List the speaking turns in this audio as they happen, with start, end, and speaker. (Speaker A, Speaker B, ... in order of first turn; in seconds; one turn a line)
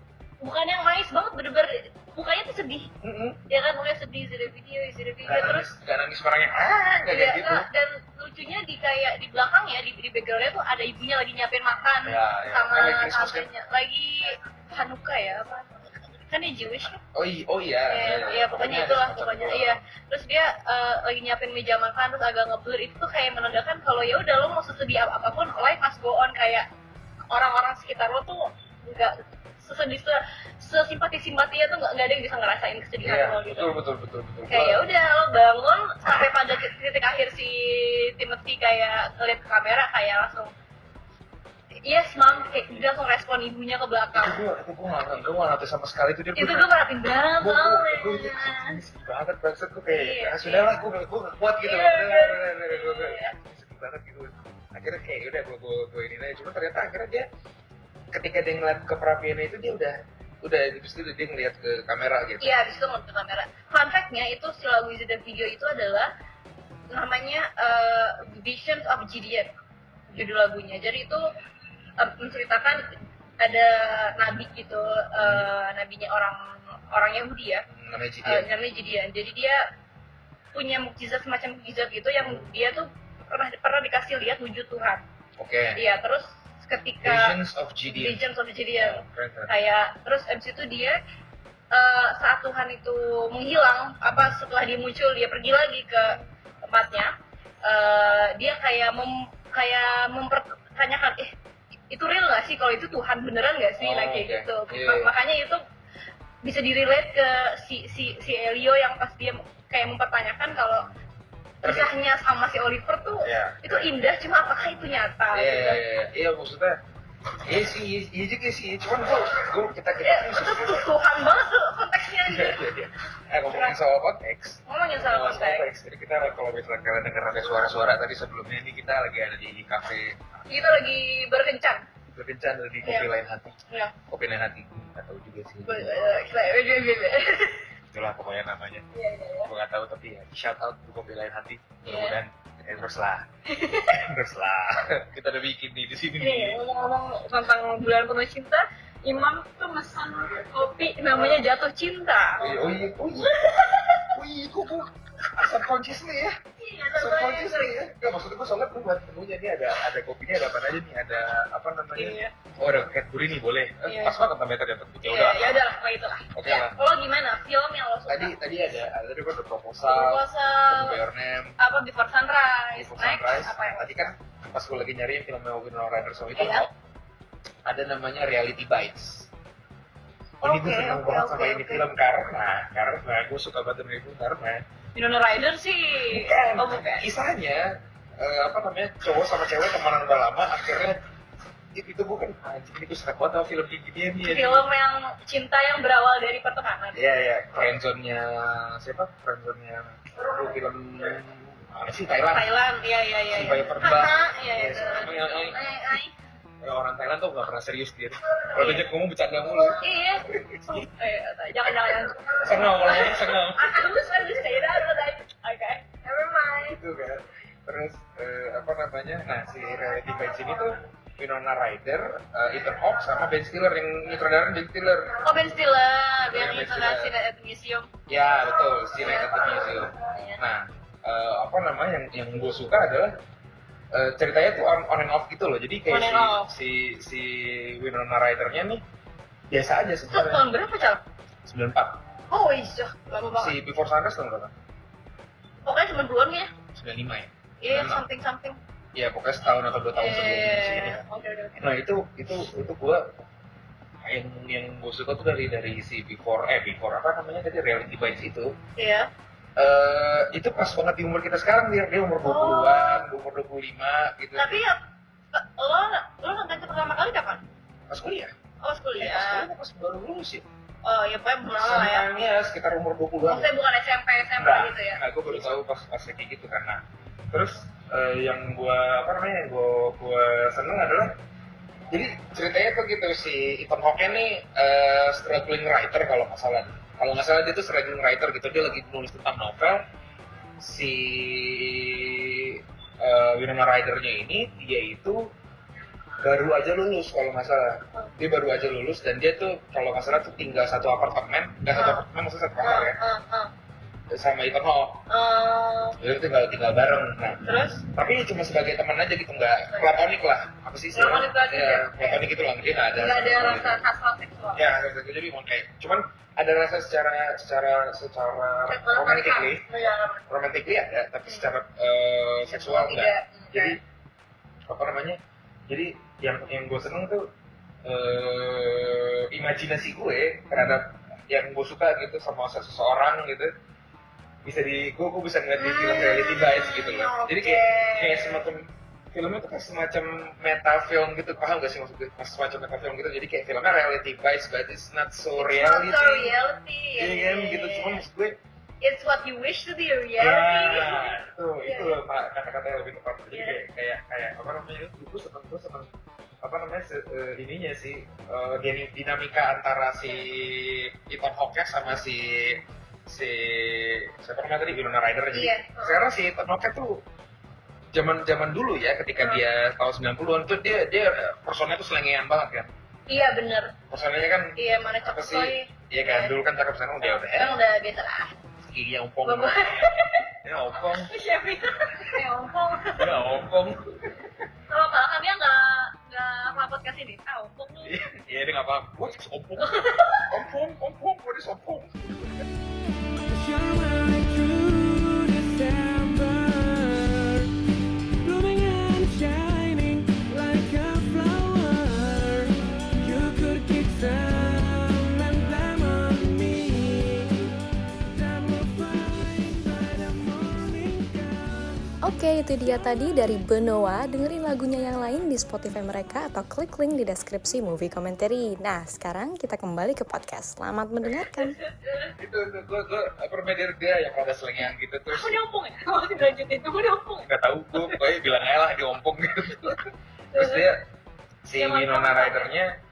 Speaker A: 0.4-2.9
Speaker B: 3.0-3.4
Speaker A: 3.5-5.7
Speaker B: 5.2-7.7
Speaker A: 7.1-17.0
Speaker B: 12.0-13.5
Speaker B: 17.1-19.8
Speaker A: 17.9-26.7
Speaker A: 27.3-33.7
Speaker B: 33.0-34.8
Speaker A: 34.5-40.5
Speaker A: 41.8-44.4
Speaker B: 44.1-46.7
Speaker A: 46.3-48.8
Speaker B: 47.4-57.3
Speaker A: 49.9-50.7
Speaker A: 51.6-53.3
Speaker B: 58.1-62.5
Speaker A: 62.4-66.1
Speaker A: 66.9-69.5
Speaker A: 70.1-71.3
Speaker A: 72.0-72.9
Speaker A: 73.4-77.6
Speaker B: 75.2-75.5
Speaker B: 77.7-78.5
Speaker A: 78.2-79.7
Speaker A: 80.5-85.0
Speaker B: 85.4-85.8
Speaker A: 85.7-87.4
Speaker B: 87.0-88.2
Speaker A: 87.9-91.0
Speaker B: 88.8-89.5
Speaker A: 91.7-97.1
Speaker B: 96.0-96.3
Speaker A: 97.6-101.3
Speaker A: 101.9-105.6
Speaker B: 103.8-105.1
Speaker A: 106.4-110.9
Speaker A: 111.6-115.8
Speaker B: 111.6-111.9
Speaker B: 113.2-113.8
Speaker B: 115.3-116.8
Speaker B: 117.4-120.9
Speaker A: 120.0-122.6
Speaker B: 122.2-130.2
Speaker A: 123.5-123.8
Speaker A: 124.7-125.7
Speaker A: 130.5-131.8
Speaker B: 132.1-133.6
Speaker A: 132.8-133.1
Speaker A: 133.7-133.9
Speaker B: 134.1-136.2
Speaker A: 135.6-137.7
Speaker B: 137.9-138.9
Speaker A: 138.9-139.5
Speaker B: 139.4-143.2
Speaker A: 141.8-142.2
Speaker A: 143.5-144.0
Speaker B: 143.9-146.6
Speaker A: 146.2-152.5
Speaker B: 152.4-153.3
Speaker A: 153.2-154.1
Speaker B: 154.1-156.4
Speaker A: 156.6-157.8
Speaker B: 156.9-165.6
Speaker A: 161.9-162.3
Speaker A: 163.8-164.2
Speaker A: 165.0-168.3
Speaker B: 166.3-166.8
Speaker B: 168.1-171.6
Speaker A: 169.9-171.0
Speaker A: 171.6-174.1
Speaker B: 172.8-176.7
Speaker A: 176.3-176.7
Speaker B: 177.6-179.3
Speaker B: 180.4-184.6
Speaker A: 180.4-181.8
Speaker A: 184.9-187.1
Speaker B: 186.1-191.0
Speaker B: 191.7-194.6
Speaker A: 194.2-197.0
Speaker B: 196.9-202.5
Speaker A: 202.3-206.1
Speaker B: 203.3-205.6
Speaker B: 206.6-210.9
Speaker A: 208.5-208.8
Speaker A: 209.5-216.8
Speaker B: 212.3-213.9
Speaker B: 216.7-225.2
Speaker A: 225.2-227.9
Speaker B: 226.3-227.1
Speaker B: 228.1-233.1
Speaker A: 228.9-230.4
Speaker B: 233.9-238.8
Speaker A: 235.9-236.5
Speaker B: 239.5-240.4
Speaker A: 240.1-241.0
Speaker B: 241.4-242.0
Speaker A: 242.3-243.5
Speaker B: 243.4-244.5
Speaker A: 245.6-246.5
Speaker B: 246.7-248.0
Speaker A: 247.6-248.6
Speaker B: 248.9-251.0
Speaker A: 249.9-251.6
Speaker B: 251.6-253.2
Speaker B: 254.0-258.5
Speaker A: 258.8-259.1
Speaker B: 259.6-264.6
Speaker A: 262.2-263.1
Speaker A: 264.4-264.8
Speaker A: 265.3-267.4
Speaker B: 267.9-268.3
Speaker A: 268.6-269.5
Speaker B: 269.0-270.4
Speaker A: 270.8-272.1
Speaker B: 271.6-273.5
Speaker A: 273.2-275.0
Speaker B: 274.4-281.1
Speaker B: 281.9-289.8
Speaker B: 290.6-295.2
Speaker B: 296.2-303.0
Speaker A: 301.7-302.0
Speaker A: 302.6-303.5
Speaker B: 304.1-305.0
Speaker A: 305.1-306.0
Speaker B: 306.0-313.8
Speaker A: 307.4-307.8
Speaker A: 310.9-312.3
Speaker A: 312.9-314.7
Speaker B: 314.6-319.6
Speaker A: 318.6-320.2
Speaker B: 320.3-323.8
Speaker A: 322.6-323.8
Speaker B: 324.7-327.3
Speaker B: 327.8-333.5
Speaker B: 334.4-346.3
Speaker A: 335.6-338.4
Speaker A: 345.4-348.0
Speaker B: 347.0-348.4
Speaker A: 348.8-352.0
Speaker B: 350.2-355.9
Speaker A: 353.3-353.6
Speaker B: 356.4-367.0
Speaker A: 365.3-366.1
Speaker B: 367.9-372.7
Speaker A: 373.1-373.7
Speaker B: 373.9-377.6
Speaker A: 374.6-376.3
Speaker A: 377.0-378.3
Speaker B: 378.7-379.6
Speaker A: 379.2-380.2
Speaker B: 380.4-381.1
Speaker A: 381.0-383.1
Speaker B: 382.9-384.3
Speaker A: 384.7-388.0
Speaker B: 387.8-392.4
Speaker A: 389.6-390.3
Speaker C: 393.2-397.5
Speaker C: 398.2-411.9
Speaker D: 412.0-421.6
Speaker A: 421.4-422.1
Speaker B: 422.2-425.4
Speaker A: 425.1-428.0
Speaker B: 427.2-430.8
Speaker A: 430.3-430.7
Speaker B: 431.4-432.7
Speaker A: 431.6-432.5